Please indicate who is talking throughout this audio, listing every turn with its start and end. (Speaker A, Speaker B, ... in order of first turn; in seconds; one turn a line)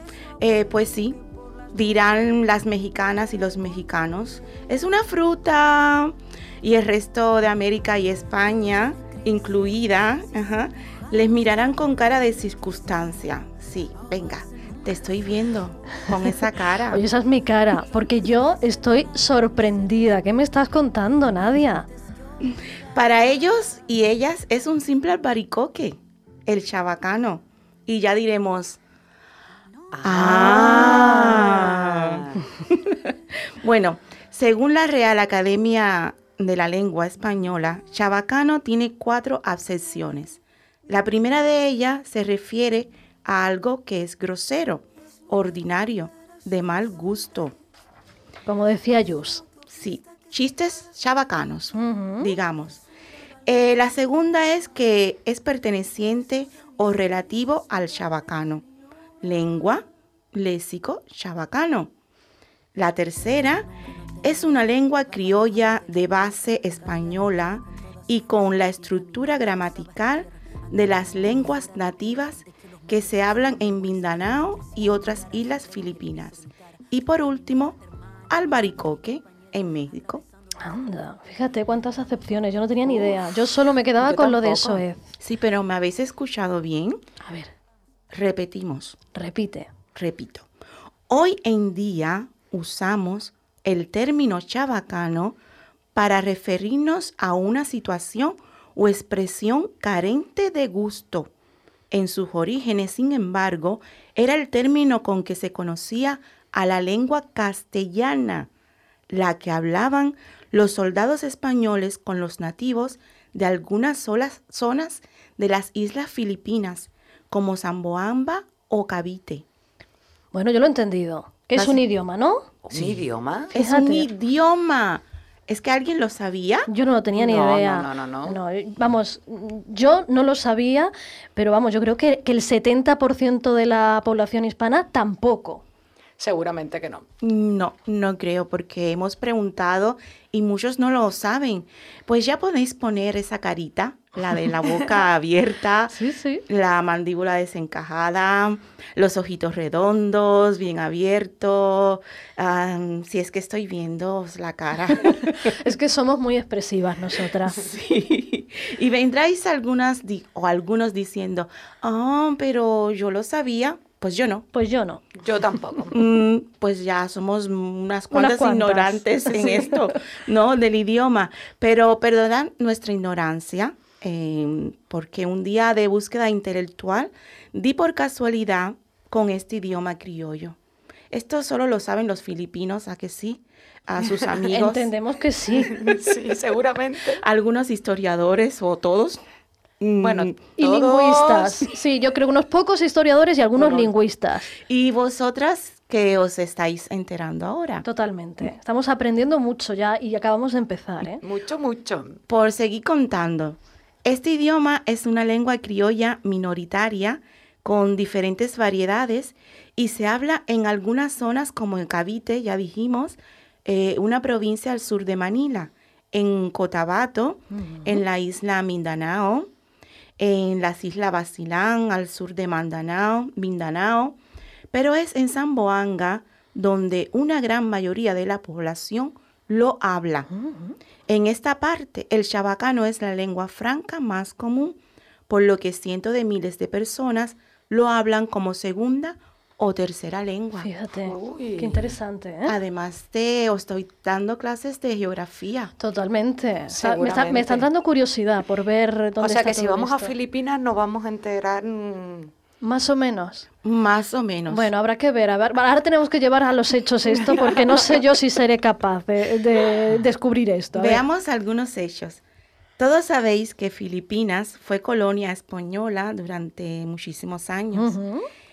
Speaker A: 0.4-17.0
Speaker B: 16.9-21.9
Speaker A: 22.9-28.8
Speaker C: 29.9-32.4
Speaker A: 30.0-47.5
Speaker B: 48.5-49.4
Speaker A: 49.7-52.8
Speaker B: 51.7-52.3
Speaker A: 53.5-58.6
Speaker A: 59.2-61.9
Speaker A: 62.8-63.7
Speaker A: 64.2-80.2
Speaker B: 80.6-85.1
Speaker C: 82.9-83.2
Speaker C: 84.0-84.8
Speaker A: 85.2-87.0
Speaker B: 87.2-87.5
Speaker A: 88.1-89.0
Speaker B: 89.2-89.7
Speaker A: 90.0-90.5
Speaker A: 91.1-95.4
Speaker A: 96.0-101.3
Speaker A: 101.9-108.5
Speaker A: 109.1-119.5
Speaker B: 120.3-122.5
Speaker C: 122.7-123.5
Speaker A: 123.5-126.7
Speaker B: 123.5-124.1
Speaker B: 126.7-135.6
Speaker C: 127.1-128.4
Speaker C: 136.2-137.1
Speaker A: 137.2-155.5
Speaker B: 145.9-146.4
Speaker B: 155.0-157.6
Speaker A: 157.5-164.5
Speaker B: 164.5-165.0
Speaker C: 165.2-166.0
Speaker A: 165.9-180.6
Speaker B: 168.1-169.8
Speaker A: 181.1-184.9
Speaker B: 184.5-185.7
Speaker C: 185.6-187.2
Speaker A: 187.2-189.2
Speaker A: 189.8-190.4
Speaker C: 190.0-191.7
Speaker B: 190.6-194.5
Speaker C: 193.6-193.9
Speaker A: 194.6-197.8
Speaker B: 197.8-201.2
Speaker C: 201.2-202.2
Speaker A: 202.3-219.5
Speaker B: 217.5-218.0
Speaker A: 220.2-224.2
Speaker A: 224.7-230.3
Speaker B: 230.3-230.8
Speaker A: 231.1-234.8
Speaker A: 235.3-240.7
Speaker B: 240.6-242.6
Speaker C: 241.1-241.9
Speaker A: 242.5-245.7
Speaker B: 245.8-250.1
Speaker C: 246.7-247.7
Speaker C: 249.2-252.3
Speaker B: 252.6-253.5
Speaker A: 253.6-254.7
Speaker B: 254.5-261.0
Speaker C: 257.3-258.0
Speaker A: 260.8-262.2
Speaker A: 262.8-267.9
Speaker B: 267.8-268.2